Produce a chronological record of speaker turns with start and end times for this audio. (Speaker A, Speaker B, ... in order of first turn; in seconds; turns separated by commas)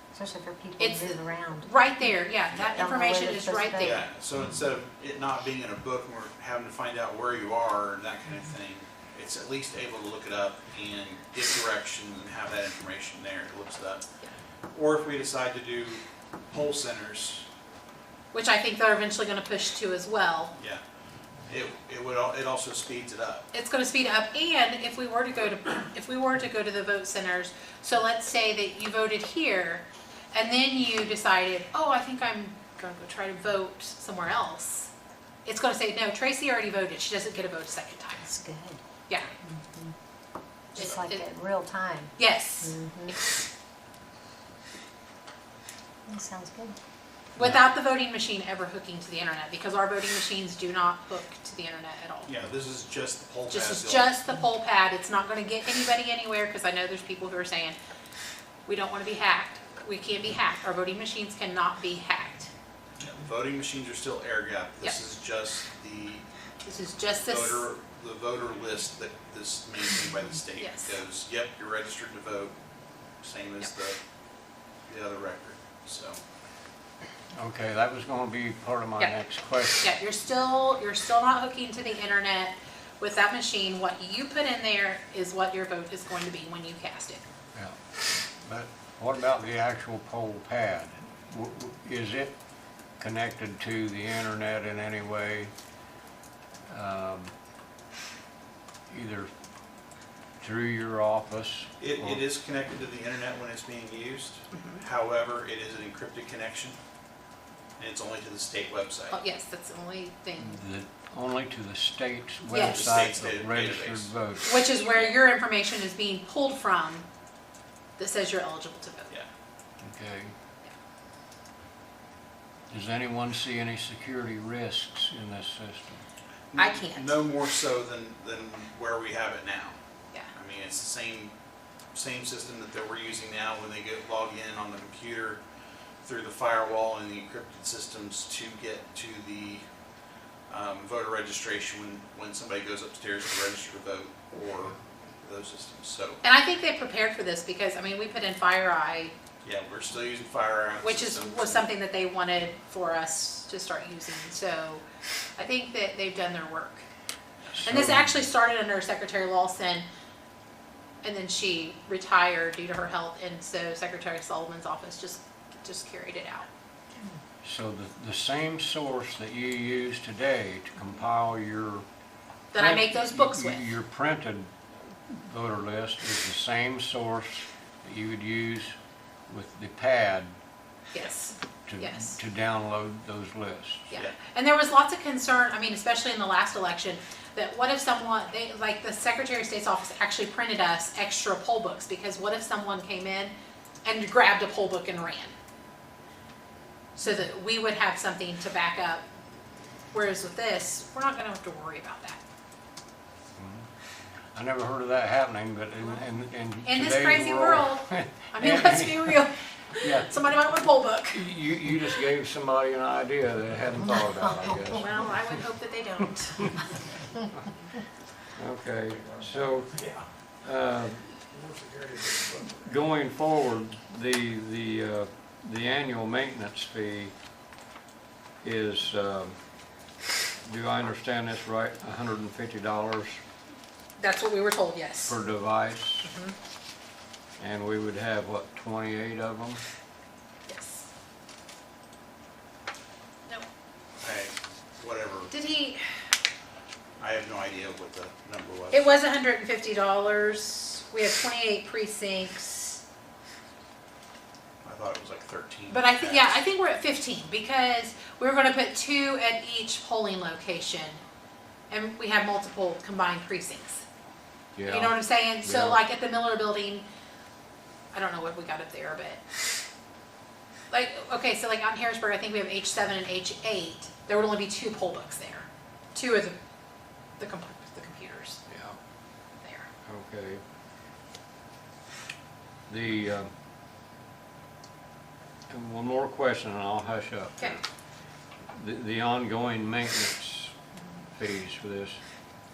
Speaker A: 0.1-1.9, Speaker B: 0.8-4.0, Speaker A: 2.5-4.0, Speaker C: 3.8-14.0, Speaker C: 14.7-17.5, Speaker B: 18.3-20.5, Speaker C: 20.6-20.8, Speaker C: 21.5-23.4, Speaker B: 23.5-34.9, Speaker B: 35.4-38.3, Speaker A: 38.2-38.8, Speaker A: 39.4-39.9, Speaker A: 40.8-43.2, Speaker B: 40.8-41.2, Speaker B: 42.2-43.5, Speaker A: 46.1-46.8, Speaker B: 47.3-52.3, Speaker C: 52.2-54.1, Speaker B: 53.5-57.8, Speaker B: 58.7-62.5, Speaker C: 63.0-66.2, Speaker B: 66.6-67.7, Speaker C: 67.2-72.5, Speaker B: 70.6-71.0, Speaker C: 73.2-74.0, Speaker C: 74.8-76.2, Speaker D: 77.3-79.9, Speaker B: 79.8-87.2, Speaker D: 87.5-92.4, Speaker D: 93.0-95.5, Speaker D: 96.7-97.3, Speaker D: 98.9-99.3, Speaker D: 100.4-102.2, Speaker C: 101.8-106.8, Speaker B: 104.5-104.8, Speaker C: 107.8-109.2, Speaker B: 109.1-110.6, Speaker D: 110.4-114.6, Speaker B: 112.5-112.9, Speaker C: 112.5-114.1, Speaker B: 114.4-117.0, Speaker B: 118.0-119.1, Speaker D: 119.8-120.3, Speaker D: 122.7-126.0, Speaker C: 126.5-129.8, Speaker B: 126.6-127.2, Speaker C: 130.3-131.3, Speaker C: 131.9-135.4, Speaker C: 136.0-139.6, Speaker C: 140.5-146.2, Speaker B: 146.2-149.1, Speaker C: 149.4-151.7, Speaker B: 150.8-154.8, Speaker B: 155.4-156.8, Speaker D: 157.5-158.2, Speaker B: 157.6-159.8, Speaker B: 161.0-166.5, Speaker D: 167.4-171.8, Speaker B: 172.5-173.7, Speaker D: 172.5-178.7, Speaker D: 179.3-180.3, Speaker B: 180.9-182.2, Speaker D: 181.7-183.9, Speaker B: 183.9-195.3, Speaker B: 196.9-199.0, Speaker B: 199.9-202.2, Speaker D: 203.3-203.7, Speaker D: 204.3-209.2, Speaker B: 206.6-211.2, Speaker D: 209.8-210.2, Speaker D: 211.1-215.4, Speaker B: 214.6-216.7, Speaker D: 218.3-219.8, Speaker C: 219.2-220.0, Speaker D: 220.4-221.2, Speaker C: 221.3-222.5, Speaker D: 222.5-227.1, Speaker D: 228.4-229.4, Speaker D: 230.4-233.2, Speaker B: 234.0-235.2, Speaker D: 235.1-236.1, Speaker B: 236.0-236.3, Speaker D: 237.4-239.6, Speaker B: 240.5-240.9, Speaker C: 244.0-245.3, Speaker B: 245.3-245.8, Speaker C: 247.0-248.9, Speaker B: 248.7-252.8, Speaker C: 254.6-256.4, Speaker B: 255.7-261.0, Speaker B: 261.7-263.8, Speaker D: 264.5-265.8, Speaker B: 264.6-266.8, Speaker B: 267.9-269.2, Speaker B: 270.7-276.4, Speaker B: 277.2-278.4, Speaker D: 278.5-278.8, Speaker B: 279.4-279.7, Speaker D: 279.8-280.4, Speaker D: 282.7-283.3, Speaker D: 285.5-287.6, Speaker D: 288.6-290.5, Speaker D: 291.1-292.0